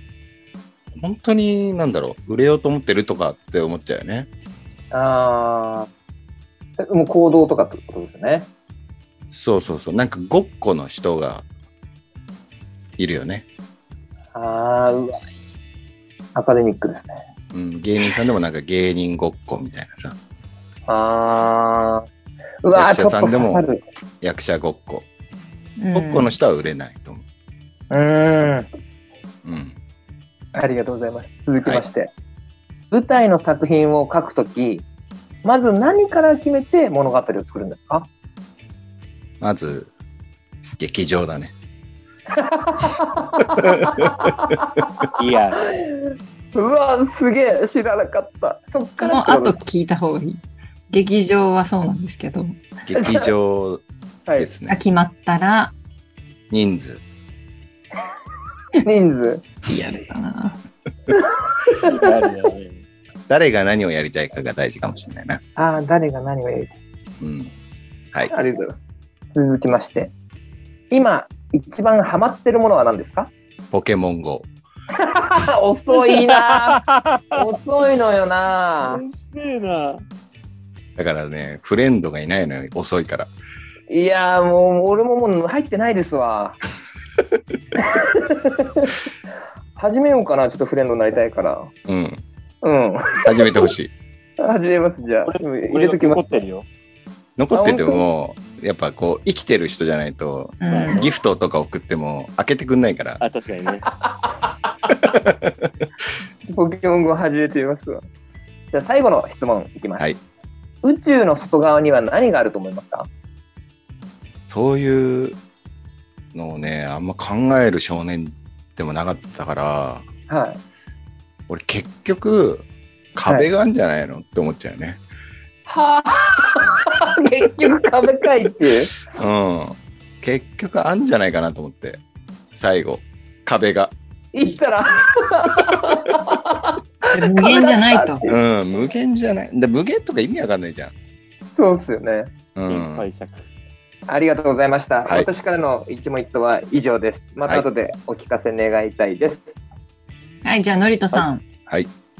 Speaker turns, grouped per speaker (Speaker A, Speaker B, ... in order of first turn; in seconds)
Speaker A: 0.9-4.3, 9.3-11.4, 13.0-13.4, 17.5-20.2, 22.7-23.6, 24.2-25.1, 25.9-27.2, 29.4-29.8, 39.4-39.9, 40.8-41.5, 43.6-44.1, 52.9-53.8, 54.4-54.8, 56.5-57.0, 59.7-60.0, 63.3-65.4, 67.2-67.5, 73.7-74.5, 81.0-83.3, 91.9-92.2, 93.2-93.9, 97.4-103.2, 104.9-105.7, 114.5-115.4, 116.3-120.0, 121.5-125.0, 129.1-132.0, 132.5-133.9, 138.2-140.9, 142.5-143.1
Speaker B: 4.9-5.9, 6.8-8.5, 14.3-15.2, 16.3-17.2, 20.9-22.1, 22.6-23.8, 27.9-28.7, 30.5-32.1, 32.9-34.9, 35.4-38.1, 42.3-49.6, 52.9-53.3, 58.8-59.5, 61.1-61.9, 65.5-66.7, 68.3-68.8, 69.3-70.1, 70.9-73.3, 75.0-76.8, 77.3-79.0, 83.9-86.6, 87.8-88.9, 89.8-91.7, 92.6-93.7, 94.4-96.2, 97.5-98.0, 104.0-104.3, 106.5-108.0, 108.7-110.0, 110.8-113.1, 120.3-120.6, 125.7-129.1, 134.3-138.4, 141.5-142.3, 144.1-149.6
Speaker C: 25.8-26.3, 49.0-52.6, 54.7-55.7, 59.8-60.6, 100.6-101.0, 137.1-138.2, 150.4-151.4
Speaker D: 45.2-45.6, 61.8-62.8, 75.9-77.4, 78.8-80.0, 95.3-96.7, 100.7-101.1, 103.2-103.9, 142.7-143.4